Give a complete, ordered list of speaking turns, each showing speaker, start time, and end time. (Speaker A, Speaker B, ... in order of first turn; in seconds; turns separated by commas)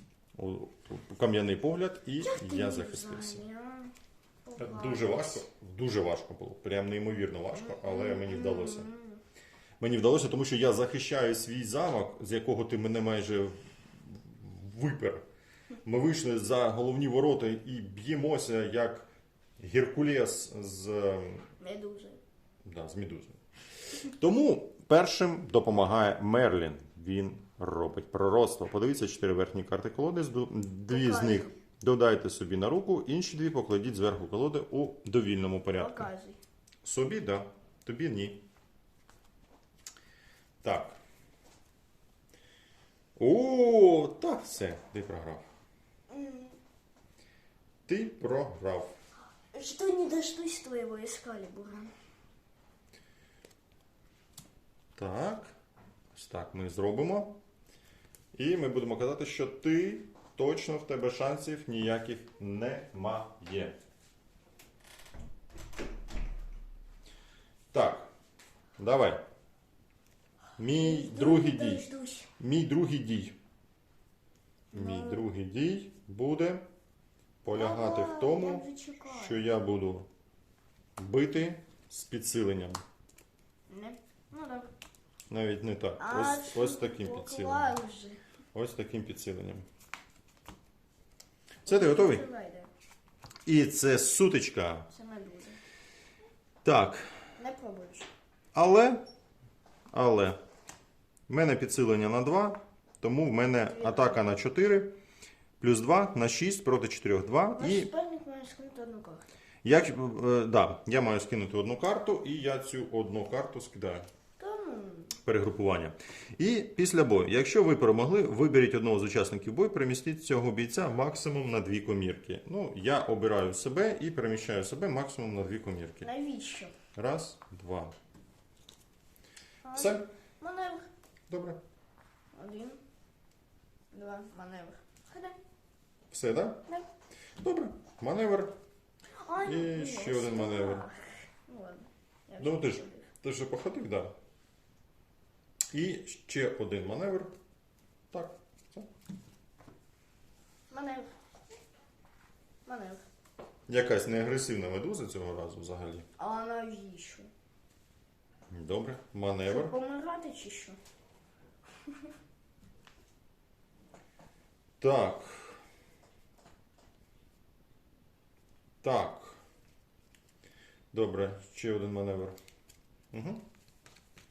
Speaker A: 0.3-3.4, Speaker B: 2.2-5.4, Speaker A: 4.6-8.9, Speaker B: 7.5-9.2, Speaker A: 9.8-15.2, Speaker A: 15.8-19.1, Speaker A: 19.6-21.5, Speaker B: 21.6-22.2, Speaker A: 22.6-23.4, Speaker A: 23.9-36.1, Speaker B: 30.9-31.6, Speaker B: 35.7-36.4, Speaker A: 36.8-38.5, Speaker A: 40.6-41.0, Speaker A: 43.2-45.5, Speaker B: 46.1-46.6, Speaker A: 47.9-48.9, Speaker B: 49.5-51.9, Speaker A: 55.0-55.5, Speaker A: 56.1-57.4, Speaker A: 58.3-63.8, Speaker A: 67.7-68.1, Speaker A: 68.8-69.2, Speaker A: 70.6-71.9, Speaker B: 70.6-72.3, Speaker A: 72.4-73.4, Speaker B: 74.7-75.2, Speaker A: 74.7-76.7, Speaker A: 77.4-80.1, Speaker B: 77.5-79.4, Speaker A: 81.0-82.8, Speaker B: 83.7-84.7, Speaker A: 85.3-87.8, Speaker B: 86.0-88.2, Speaker A: 88.5-89.7, Speaker A: 91.7-92.2, Speaker B: 91.7-92.7, Speaker A: 93.5-94.9, Speaker B: 94.9-95.6, Speaker A: 96.6-97.2, Speaker B: 97.4-98.1, Speaker A: 98.5-99.0, Speaker A: 99.9-100.4, Speaker A: 101.3-104.9, Speaker B: 103.7-104.2, Speaker A: 105.6-107.9, Speaker B: 107.6-109.3, Speaker A: 109.6-114.1, Speaker B: 114.4-115.2, Speaker A: 115.2-126.1, Speaker B: 126.0-126.8, Speaker A: 127.0-128.0, Speaker B: 129.6-130.9, Speaker A: 129.7-130.1, Speaker A: 131.3-131.6, Speaker B: 132.3-132.8, Speaker B: 133.9-135.4, Speaker A: 136.1-136.7, Speaker A: 137.4-138.6, Speaker B: 139.2-143.1, Speaker A: 139.4-140.9, Speaker A: 142.4-144.1, Speaker A: 145.7-147.3, Speaker A: 148.1-148.9, Speaker B: 150.7-151.1, Speaker B: 152.7-153.0, Speaker A: 153.7-156.1, Speaker B: 156.2-157.3, Speaker A: 158.5-159.8, Speaker B: 159.5-160.8, Speaker B: 161.8-162.1, Speaker A: 164.8-165.6, Speaker A: 168.8-169.4, Speaker A: 170.9-172.4, Speaker A: 173.1-173.5